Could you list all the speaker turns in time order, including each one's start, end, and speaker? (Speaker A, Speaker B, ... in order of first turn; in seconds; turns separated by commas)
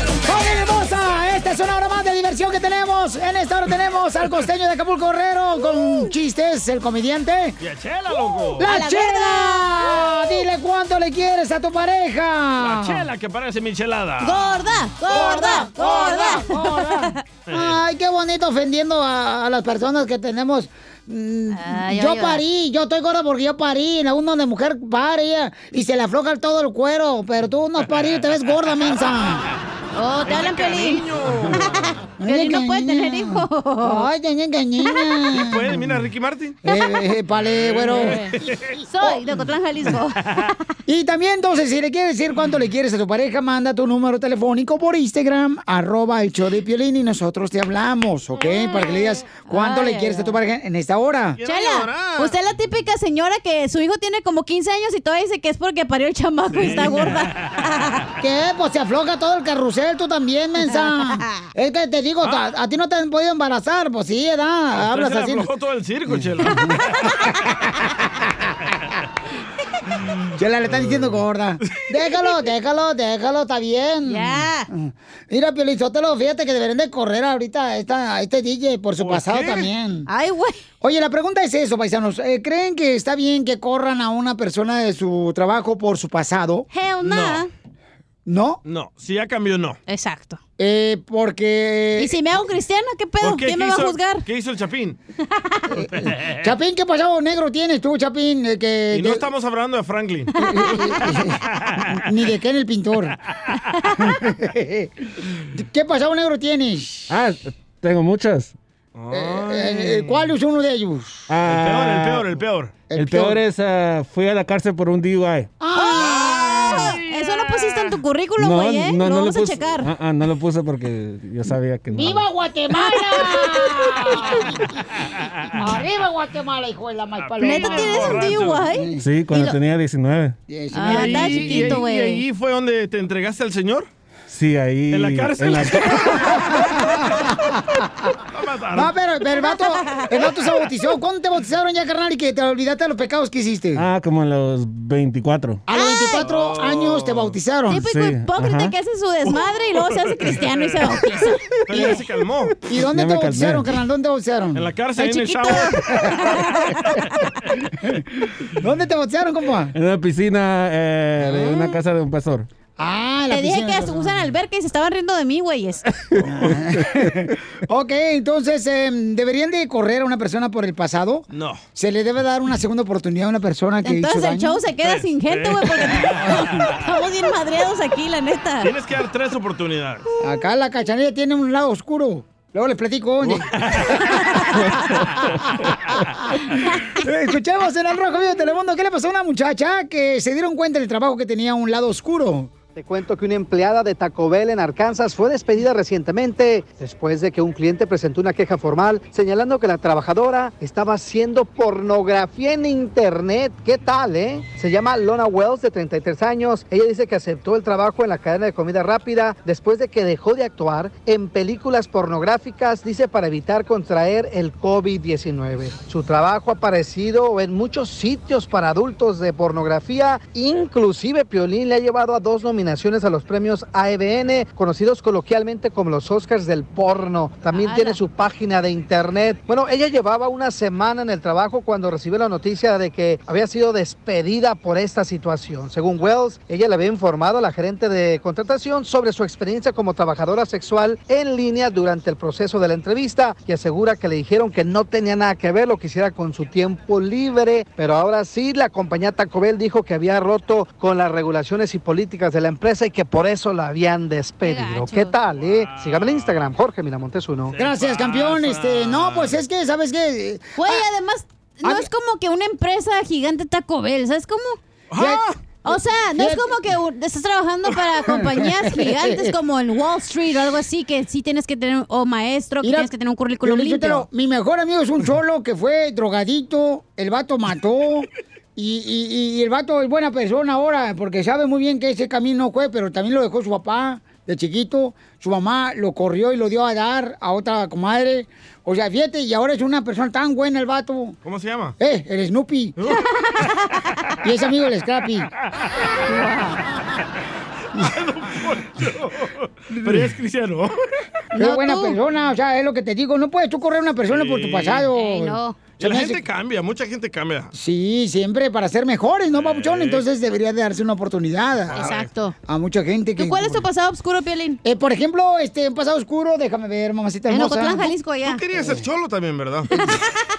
Speaker A: 0.2-7.6, Speaker B: 7.6-8.7, Speaker A: 8.6-13.1, Speaker C: 8.6-10.0, Speaker B: 12.6-14.6, Speaker C: 14.2-17.1, Speaker A: 15.1-29.4, Speaker B: 17.5-17.8, Speaker C: 21.5-22.4, Speaker C: 29.9-31.0, Speaker B: 30.2-31.9, Speaker A: 32.2-36.0, Speaker C: 32.2-34.1, Speaker B: 35.3-36.6, Speaker A: 36.6-38.2, Speaker B: 37.3-38.7, Speaker C: 37.9-38.3, Speaker C: 38.8-40.3, Speaker A: 40.9-51.4, Speaker C: 48.4-50.3, Speaker B: 51.4-52.4, Speaker C: 51.4-57.9, Speaker B: 56.5-57.5, Speaker A: 58.2-65.5, Speaker C: 60.7-61.0, Speaker B: 62.2-62.5, Speaker B: 64.7-66.9, Speaker A: 66.4-66.7, Speaker A: 70.3-80.1, Speaker B: 70.7-71.1, Speaker C: 74.0-74.7, Speaker B: 79.0-79.7, Speaker C: 80.1-80.6, Speaker A: 80.8-86.7, Speaker C: 86.7-87.5, Speaker B: 87.0-87.5, Speaker A: 88.2-88.6, Speaker B: 88.6-89.8, Speaker C: 89.9-90.4, Speaker A: 90.6-92.2, Speaker C: 92.0-94.2, Speaker B: 93.2-95.0, Speaker A: 95.7-99.2, Speaker B: 95.9-96.5, Speaker B: 98.9-100.3, Speaker A: 100.4-103.2, Speaker C: 100.4-100.9, Speaker A: 104.1-104.9, Speaker A: 105.5-107.1, Speaker D: 107.1-108.5, Speaker B: 108.9-110.3, Speaker A: 109.1-111.3, Speaker D: 111.3-112.3, Speaker B: 111.4-112.9, Speaker A: 112.9-113.4, Speaker D: 112.9-115.5, Speaker A: 115.6-116.9, Speaker C: 115.7-119.9, Speaker B: 115.9-117.8, Speaker D: 118.4-122.2, Speaker A: 121.9-124.8, Speaker C: 122.7-124.4, Speaker B: 125.2-125.5, Speaker A: 125.5-129.0, Speaker B: 127.2-128.7, Speaker C: 127.4-129.6, Speaker D: 129.0-130.4, Speaker A: 130.5-131.8, Speaker C: 130.7-132.2, Speaker B: 130.8-133.9, Speaker D: 134.3-135.8, Speaker B: 134.9-136.6, Speaker C: 135.7-136.2, Speaker A: 136.1-138.1, Speaker B: 138.3-139.0, Speaker A: 138.7-143.8, Speaker C: 139.4-140.1, Speaker D: 143.8-145.6, Speaker A: 145.7-147.8, Speaker C: 145.7-146.3, Speaker B: 146.2-147.4, Speaker C: 147.7-151.4, Speaker D: 147.8-148.7, Speaker B: 149.2-152.6, Speaker A: 151.7-152.0, Speaker A: 152.6-154.7, Speaker D: 152.9-153.7, Speaker B: 154.5-155.9, Speaker C: 155.0-156.8, Speaker A: 158.5-159.7, Speaker D: 159.7-162.5, Speaker A: 161.2-161.7, Speaker A: 162.8-164.3, Speaker C: 163.3-165.9, Speaker A: 166.2-174.6, Speaker B: 171.3-171.6, Speaker C: 173.8-178.7, Speaker B: 174.8-176.7, Speaker B: 178.6-180.0, Speaker A: 180.2-183.5, Speaker B: 183.2-183.9, Speaker A: 186.9-192.5, Speaker E: 192.7-257.6, Speaker C: 227.5-228.0, Speaker C: 254.4-255.1, Speaker B: 255.4-256.5, Speaker B: 257.5-259.4, Speaker A: 257.6-260.8, Speaker C: 260.6-264.6, Speaker A: 261.6-261.9, Speaker B: 264.9-265.4, Speaker A: 264.9-266.5, Speaker C: 265.6-274.1, Speaker A: 268.1-269.3, Speaker A: 272.6-272.9, Speaker A: 273.4-291.2, Speaker B: 291.2-291.8, Speaker A: 291.8-292.8, Speaker C: 292.9-293.5, Speaker A: 294.2-295.3, Speaker C: 296.1-296.6, Speaker B: 297.7-300.7, Speaker A: 299.8-300.1, Speaker C: 301.3-302.0, Speaker A: 301.4-306.2, Speaker B: 304.1-304.9, Speaker C: 304.9-305.6, Speaker B: 305.8-307.5, Speaker A: 307.5-311.9, Speaker B: 309.3-310.1, Speaker B: 311.7-312.1, Speaker C: 311.7-312.3, Speaker A: 312.5-313.6, Speaker C: 313.2-314.6, Speaker A: 314.6-317.9, Speaker C: 317.3-318.4, Speaker B: 318.2-319.7